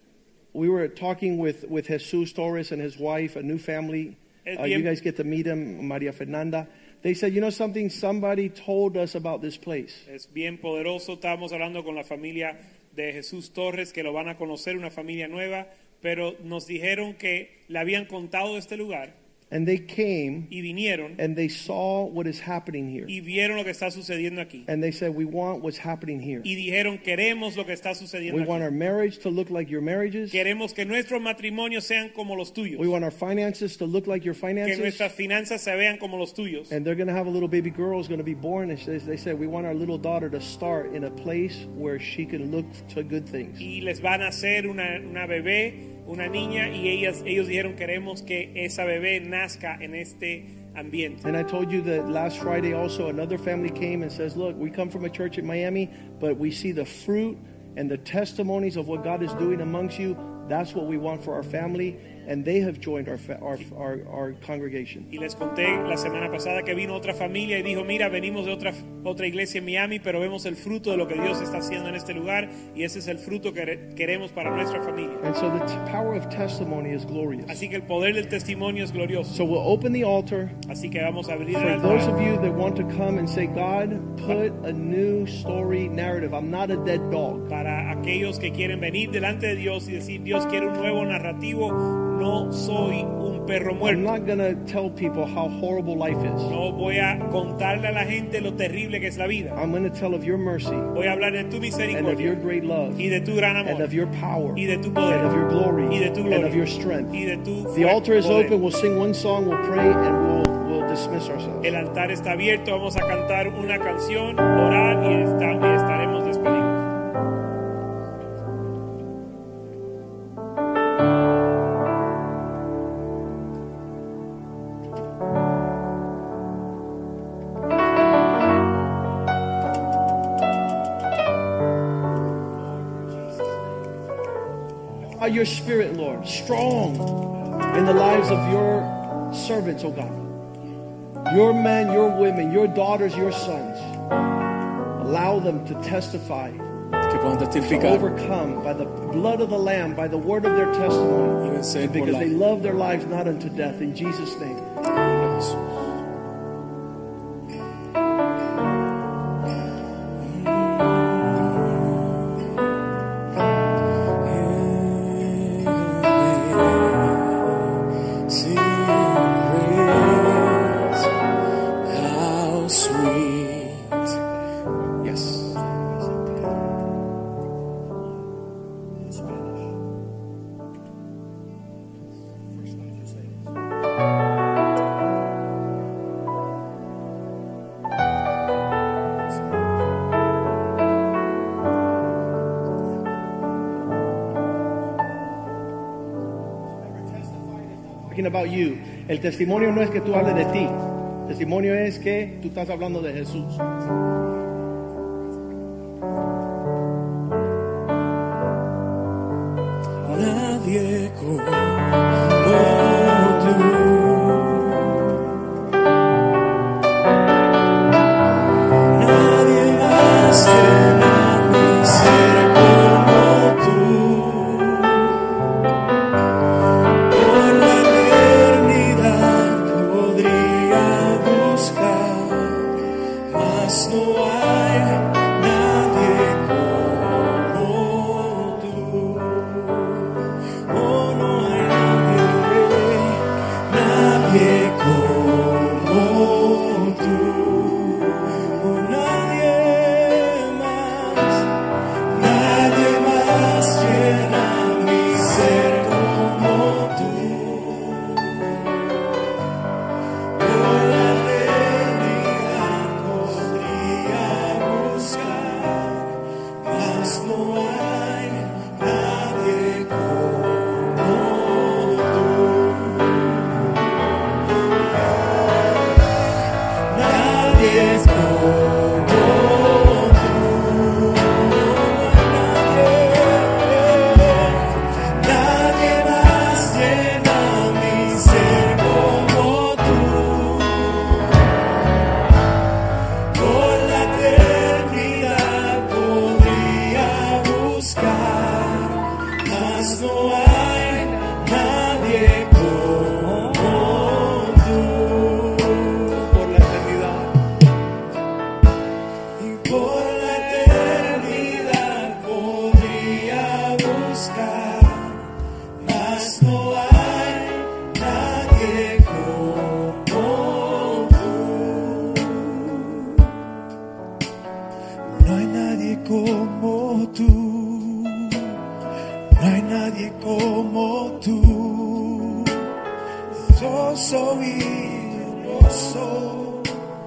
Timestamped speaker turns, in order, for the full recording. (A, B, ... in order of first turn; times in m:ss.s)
0:00.5-0:10.0 A
0:04.4-0:04.9 B
0:10.1-0:19.1 B
0:19.5-0:20.5 A
0:20.5-0:21.2 B
0:21.2-0:23.1 A
0:23.1-0:24.7 B
0:24.7-0:26.5 A
0:26.4-0:28.7 B
0:28.3-0:30.4 A
0:30.3-0:32.9 B
0:32.8-0:35.1 A
0:34.6-0:36.7 B
0:36.7-0:43.6 A
0:43.6-0:51.2 B
0:51.2-1:05.1 A
1:05.1-1:15.2 B
1:15.2-1:17.6 A
1:17.5-1:19.4 B
1:19.3-1:20.6 A
1:20.7-1:22.1 B
1:21.5-1:27.5 A
1:27.5-1:34.1 B
1:33.8-1:36.5 A
1:36.5-1:39.6 B
1:39.6-1:40.9 A
1:40.9-1:42.4 B
1:41.9-1:43.1 A
1:43.0-1:43.9 B
1:43.6-1:47.2 A
1:44.6-1:45.3 B
1:45.9-1:48.6 B
1:47.7-1:51.7 A
1:51.6-1:56.8 B
2:15.0-2:20.2 A
2:21.3-2:23.9 A
2:25.0-2:26.6 A
2:27.1-2:28.0 C
2:27.6-2:34.6 A
2:31.4-2:32.3 C
2:35.2-2:35.6 C
2:40.4-2:41.7 C
2:44.2-2:47.6 C
2:48.3-2:51.1 C
2:51.8-2:54.1 C
2:55.0-2:55.6 C
3:17.8-3:23.6 A
3:30.1-3:35.2 C
3:38.9-3:45.2 C
3:47.1-4:18.9 C
4:20.3-4:36.3 C
4:36.9-4:51.6 C
4:53.3-5:07.3 C
5:09.4-5:23.4 C
5:25.0-5:28.6 C
5:29.3-5:32.8 C
5:33.3-5:36.8 C